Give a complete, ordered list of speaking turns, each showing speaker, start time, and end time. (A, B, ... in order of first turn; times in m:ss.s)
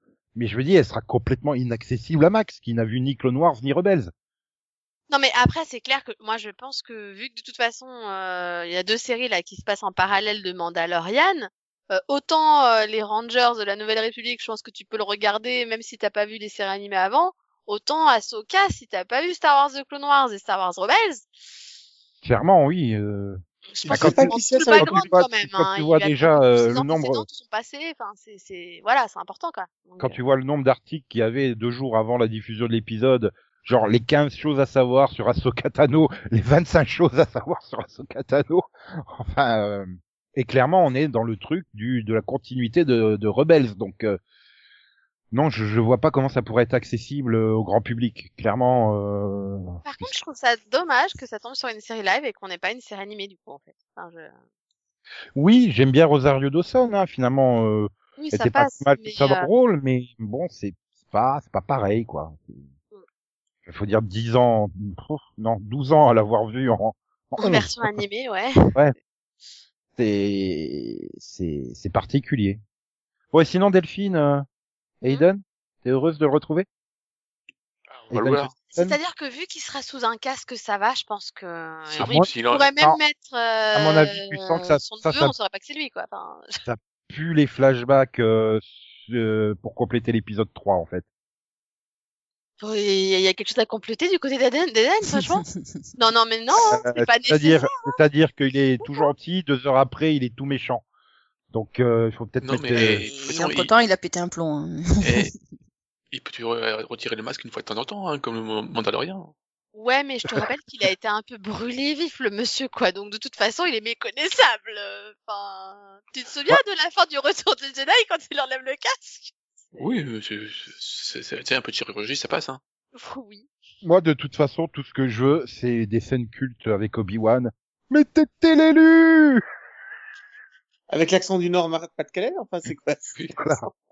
0:00.3-0:04.1 A
0:05.1-0:21.2 B
0:22.2-0:27.2 A
0:23.7-0:30.2 B
0:23.8-0:25.1 C
0:30.0-0:44.2 A
0:45.3-0:50.2 A
0:49.8-0:54.3 B
0:55.3-1:02.7 A
0:58.2-0:59.5 B
1:03.6-1:08.0 A
1:07.4-1:08.5 B
1:10.0-1:12.6 A
1:13.3-1:14.4 A
1:15.0-1:16.7 A
1:17.9-1:18.5 D
1:18.1-1:19.0 A
1:18.7-1:26.6 B
1:21.9-1:22.7 D
1:22.0-1:23.0 A
1:23.7-1:25.3 A
1:26.6-1:31.0 A
1:32.6-1:35.4 B
1:36.0-1:38.0 B
1:36.6-1:40.8 A
1:38.8-1:39.1 B
1:41.5-1:43.1 A
1:42.4-1:43.7 D
1:43.0-1:45.3 E
1:45.0-1:45.3 D
1:46.1-1:49.3 D
1:49.7-1:59.3 B
1:59.7-2:02.6 D
2:02.9-2:03.4 B
2:03.8-2:09.4 A
2:10.9-2:13.0 C
2:13.4-2:13.7 A